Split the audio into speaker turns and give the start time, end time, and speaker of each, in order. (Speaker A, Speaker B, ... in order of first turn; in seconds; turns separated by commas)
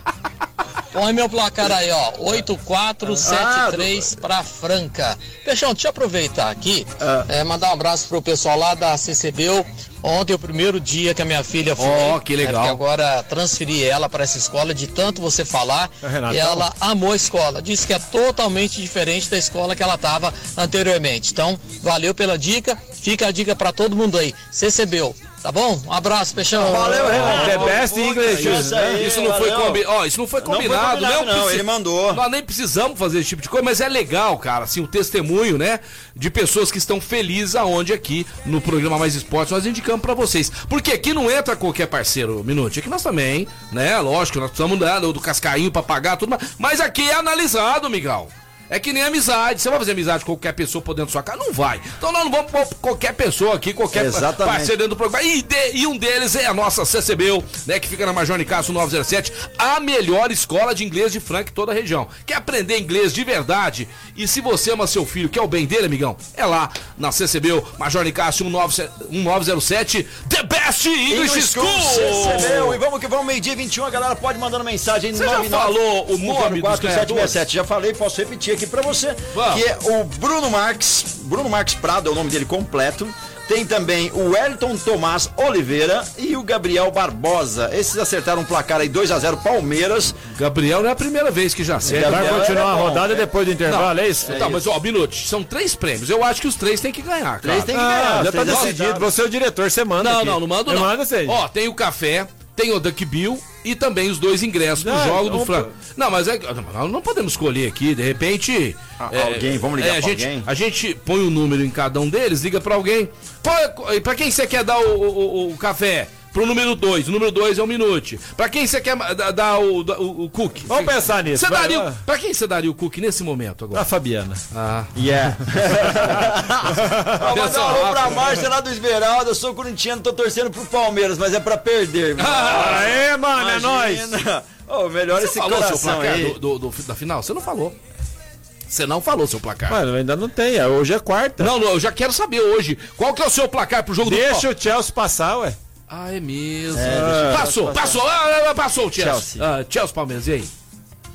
Speaker A: 0.9-27.2, Speaker B: 3.2-4.1, Speaker C: 11.8-12.8, Speaker D: 16.0-16.7, Speaker B: 26.5-29.8, Speaker D: 26.9-29.0, Speaker C: 27.1-72.8, Speaker B: 30.4-32.2, Speaker B: 53.9-54.7, Speaker B: 71.1-90.2, Speaker C: 75.1-77.4, Speaker C: 79.3-79.6, Speaker C: 90.3-92.6, Speaker B: 91.8-93.3, Speaker D: 91.9-94.5, Speaker C: 93.7-98.8, Speaker B: 94.2-94.7, Speaker B: 97.4-99.1, Speaker D: 97.7-101.4, Speaker C: 100.0-123.9, Speaker D: 104.8-105.7, Speaker B: 109.0-110.5, Speaker D: 120.7-122.0, Speaker D: 123.7-124.4, Speaker C: 124.5-124.9, Speaker B: 125.0-136.4, Speaker D: 126.8-127.1, Speaker C: 127.3-128.2, Speaker C: 132.2-132.9, Speaker D: 132.5-134.1, Speaker C: 135.2-137.8, Speaker C: 138.7-139.8, Speaker D: 139.7-141.5, Speaker C: 141.4-144.5, Speaker D: 144.0-145.6, Speaker C: 145.9-150.5, Speaker B: 146.7-148.0, Speaker D: 146.8-147.5, Speaker B: 149.0-149.4